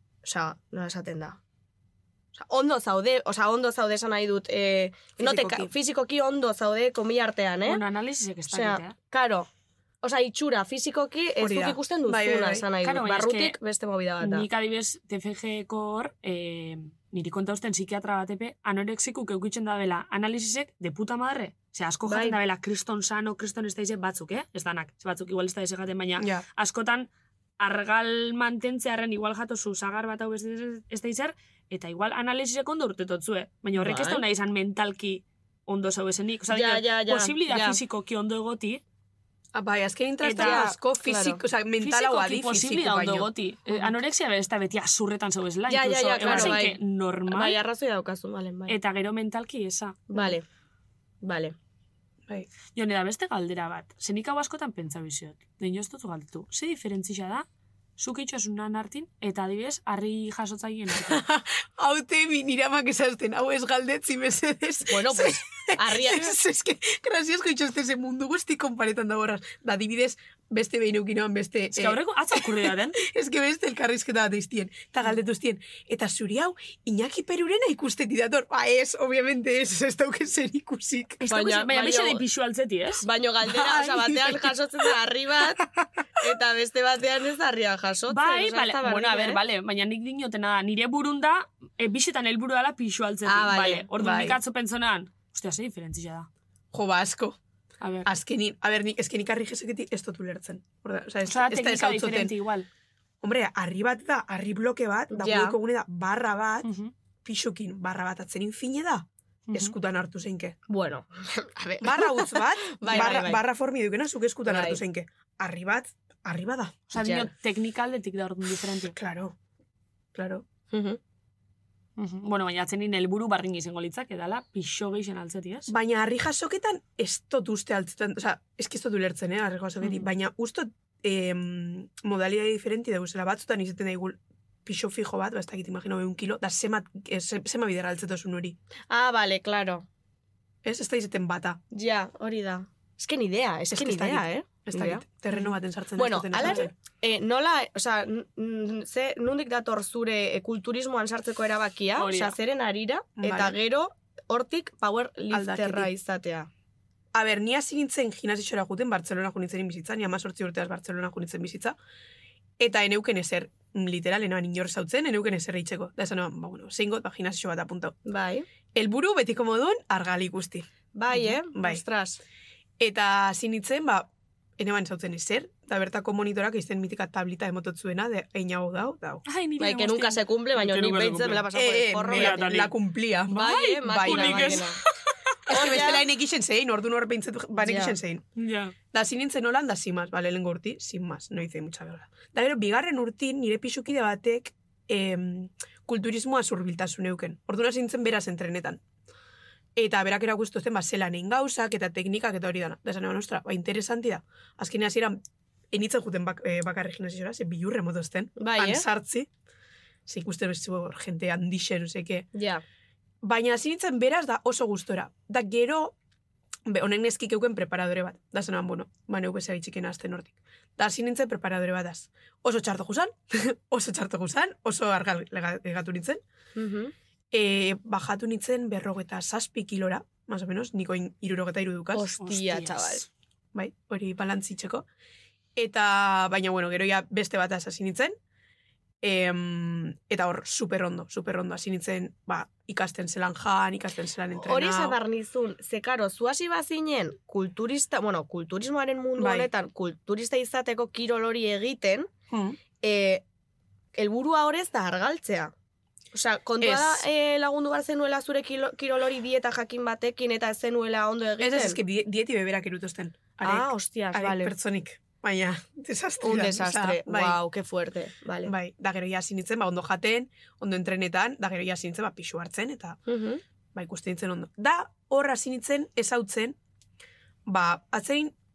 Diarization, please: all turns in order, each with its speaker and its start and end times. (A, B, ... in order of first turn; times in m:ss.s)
0:00.2-0:01.4 A
0:02.3-0:07.8 A
0:05.2-0:05.7 B
0:07.7-0:09.0 C
0:08.5-0:09.5 A
0:10.0-0:14.5 A
0:11.4-0:12.7 B
0:12.8-0:13.6 C
0:14.2-0:38.8 C
0:22.1-0:22.4 A
0:26.2-0:26.4 B
0:33.8-0:34.2 A
0:36.5-0:37.8 A
0:39.5-0:43.3 B
0:40.2-0:40.7 C
0:40.3-0:41.4 A
0:41.8-0:47.6 C
0:45.7-0:48.8 A
0:46.2-0:46.6 B
0:48.7-0:50.3 C
0:50.1-0:50.4 A
0:51.2-0:51.6 A
0:52.8-0:57.5 C
0:58.0-1:01.2 C
1:01.1-1:12.4 B
1:04.9-1:06.3 A
1:11.7-1:13.0 C
1:13.0-1:21.3 B
1:21.2-1:23.1 C
1:21.3-1:22.2 A
1:23.0-1:25.6 A
1:23.4-1:24.9 B
1:26.2-1:29.4 A
1:28.1-1:36.3 C
1:33.3-1:33.9 A
1:34.0-1:34.4 B
1:36.7-1:37.4 B
1:37.8-1:38.1 C
1:38.0-1:42.3 B
1:41.3-1:42.7 C
1:43.2-1:46.7 B
1:45.1-1:45.6 A
1:46.6-1:46.9 C
1:47.2-1:50.6 B
1:49.5-1:49.7 C
1:50.7-1:53.4 A
1:51.8-1:56.8 B
1:54.4-1:54.8 A
1:56.9-1:59.0 C
1:57.0-1:57.3 A
1:59.0-1:59.4 B
2:00.2-2:00.4 B
2:00.7-2:01.0 A
2:02.0-2:05.7 C
2:05.7-2:18.6 B
2:18.9-2:19.9 A
2:20.6-2:21.6 B
2:21.7-2:25.1 A
2:23.7-2:26.7 B
2:26.0-2:36.5 A
2:32.0-2:32.4 C
2:33.2-2:33.6 B
2:35.3-2:35.9 B
2:37.1-2:41.8 B
2:42.6-2:48.0 B
2:48.1-2:48.5 A
2:48.8-2:50.7 B
2:50.9-2:52.2 A
2:51.5-2:51.8 B
2:52.8-2:59.2 B
2:59.3-3:02.7 C
2:59.6-3:02.6 A
3:01.5-3:04.6 B
3:03.3-3:04.8 A
3:03.3-3:05.8 C
3:05.5-3:06.0 A
3:05.5-3:08.2 B
3:07.6-3:08.0 A
3:08.4-3:08.8 C
3:08.9-3:18.8 B
3:19.8-3:25.2 B
3:25.7-3:29.3 B
3:28.4-3:28.9 A
3:30.1-3:32.3 B
3:32.3-3:32.6 A
3:33.2-3:36.0 B
3:36.7-3:46.2 B
3:46.6-3:46.9 A
3:47.3-3:52.1 B
3:51.9-3:53.1 A
3:52.2-3:53.1 C
3:53.5-3:54.9 B
3:55.6-3:58.1 B
3:59.0-4:05.0 B
4:04.4-4:12.1 A
4:09.2-4:09.5 B
4:12.3-4:12.6 B
4:12.8-4:13.2 A
4:14.0-4:15.5 A
4:16.1-4:21.8 A
4:16.6-4:17.0 B
4:21.4-4:27.4 B
4:23.4-4:24.5 A
4:26.2-4:28.5 A
4:28.4-4:33.0 B
4:33.1-4:33.4 A
4:33.8-4:36.6 B
4:37.5-4:38.3 B